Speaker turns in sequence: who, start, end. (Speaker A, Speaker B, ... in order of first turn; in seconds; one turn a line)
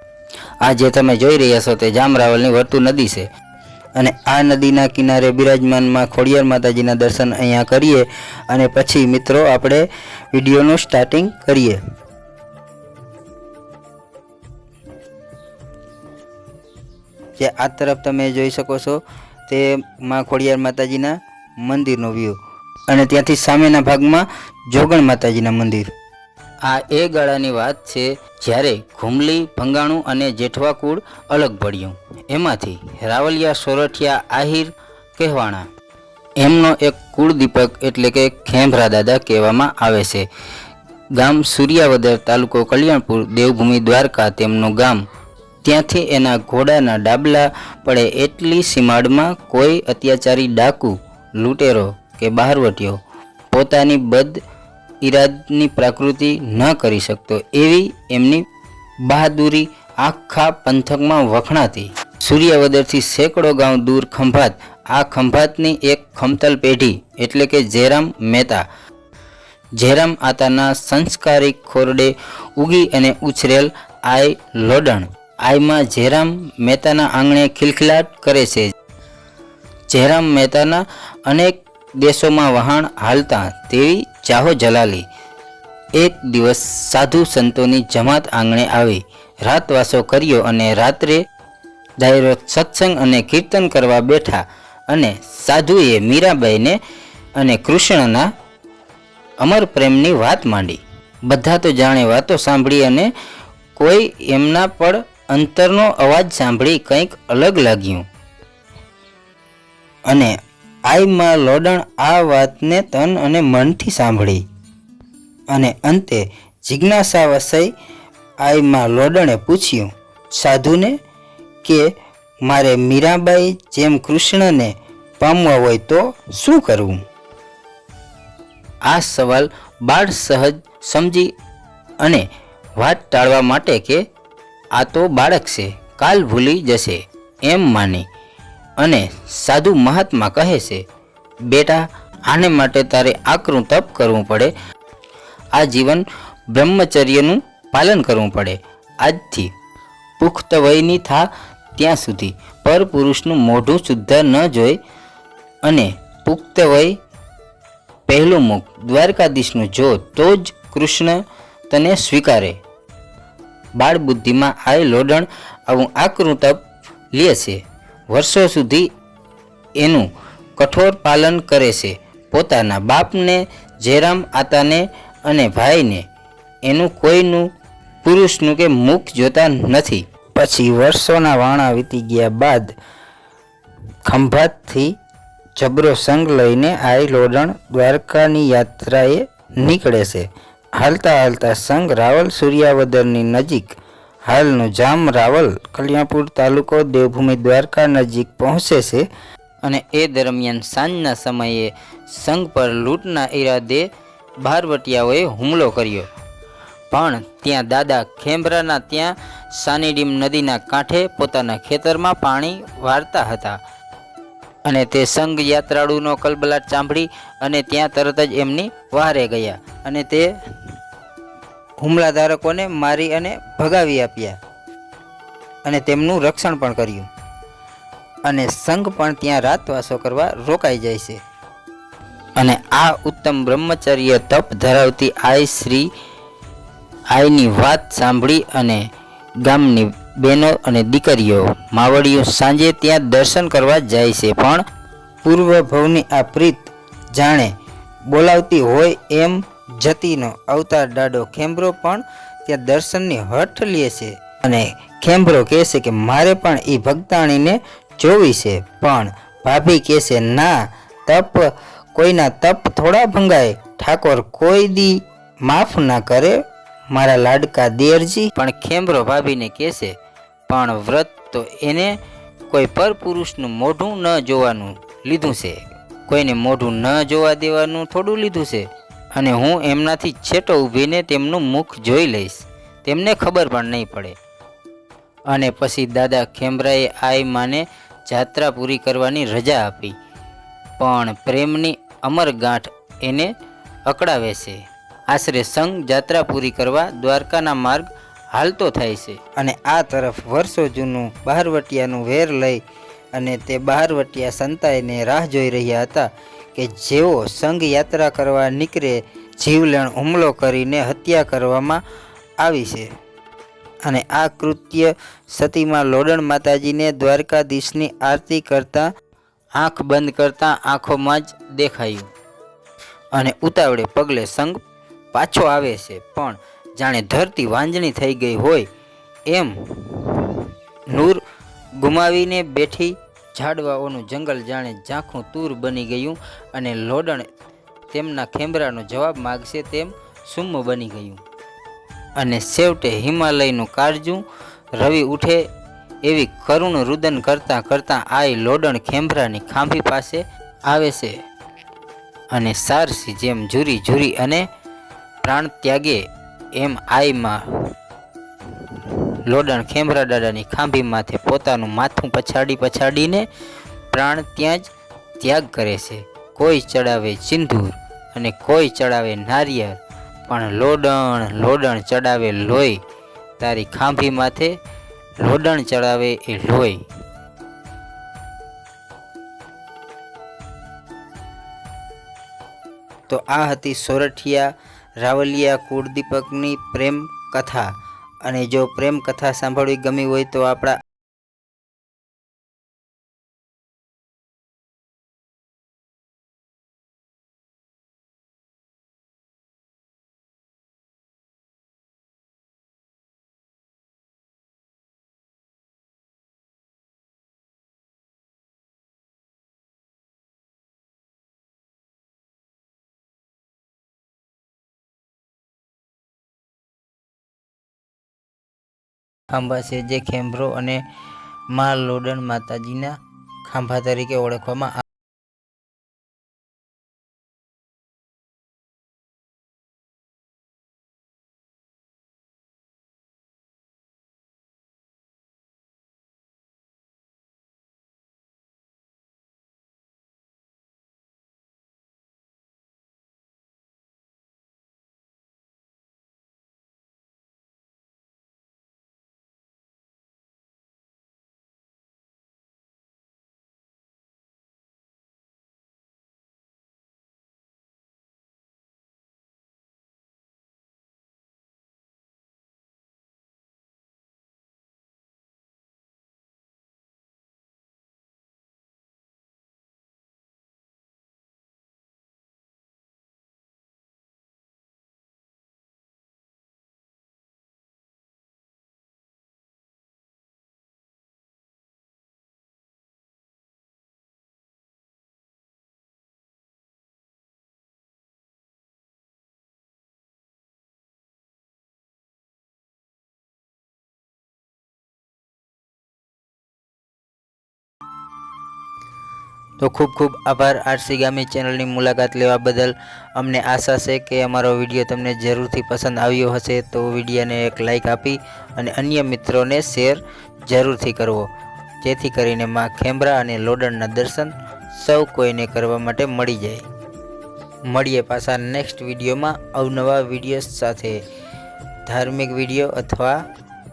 Speaker A: 0.6-3.3
Speaker A: 3.9-11.8
Speaker A: 17.4-25.9
Speaker A: 26.6-35.7
Speaker A: 36.4-40.3
Speaker A: 41.1-45.0
Speaker A: 45.6-53.0
Speaker A: 53.5-54.4
Speaker A: 55.0-58.4
Speaker A: 59.0-68.7
Speaker A: 69.8-78.7
Speaker A: 79.9-85.1
Speaker A: 85.9-91.2
Speaker A: 92.0-96.8
Speaker A: 97.3-98.3
Speaker A: 99.4-103.1
Speaker A: 103.7-108.0
Speaker A: 110.1-110.3
Speaker A: 110.9-114.4
Speaker A: 115.5-117.7
Speaker A: 118.4-121.0
Speaker A: 121.6-121.9
Speaker A: 122.5-127.0
Speaker A: 128.8-131.3
Speaker A: 132.0-132.2
Speaker A: 132.8-134.0
Speaker A: 134.8-138.1
Speaker A: 138.8-140.8
Speaker A: 141.5-144.5
Speaker A: 145.5-149.5
Speaker A: 150.2-154.8
Speaker A: 155.6-156.9
Speaker A: 158.1-162.6
Speaker A: 163.8-166.6
Speaker A: 167.1-168.9
Speaker A: 169.8-176.0
Speaker A: 176.6-177.5
Speaker A: 178.0-182.7
Speaker A: 184.0-184.9
Speaker A: 185.6-199.1
Speaker A: 199.6-203.9
Speaker A: 204.4-206.1
Speaker A: 206.9-213.6
Speaker A: 214.6-220.3
Speaker A: 221.8-224.4
Speaker A: 225.6-227.1
Speaker A: 228.2-231.2
Speaker A: 232.3-235.9
Speaker A: 237.1-238.9
Speaker A: 239.4-244.6
Speaker A: 245.2-247.5
Speaker A: 248.1-269.9
Speaker A: 270.5-272.0
Speaker A: 272.5-284.2
Speaker A: 285.3-289.9
Speaker A: 290.8-293.3
Speaker A: 293.9-302.6
Speaker A: 303.1-311.8
Speaker A: 312.4-312.9
Speaker A: 313.8-318.9
Speaker A: 319.6-322.1
Speaker A: 323.1-324.6
Speaker A: 325.1-328.7
Speaker A: 329.3-331.2
Speaker A: 331.8-337.3
Speaker A: 337.9-341.2
Speaker A: 342.1-344.2
Speaker A: 344.7-345.4
Speaker A: 346.0-351.2
Speaker A: 352.3-354.5
Speaker A: 355.2-357.5
Speaker A: 358.7-363.3
Speaker A: 363.9-364.7
Speaker A: 365.2-372.8
Speaker A: 373.4-374.6
Speaker A: 375.2-376.8
Speaker A: 383.1-387.7
Speaker A: 388.2-390.8
Speaker A: 419.3-420.8
Speaker A: 421.5-424.8
Speaker A: 499.6-511.3
Speaker A: 511.8-516.6
Speaker A: 517.7-521.0
Speaker A: 521.8-523.2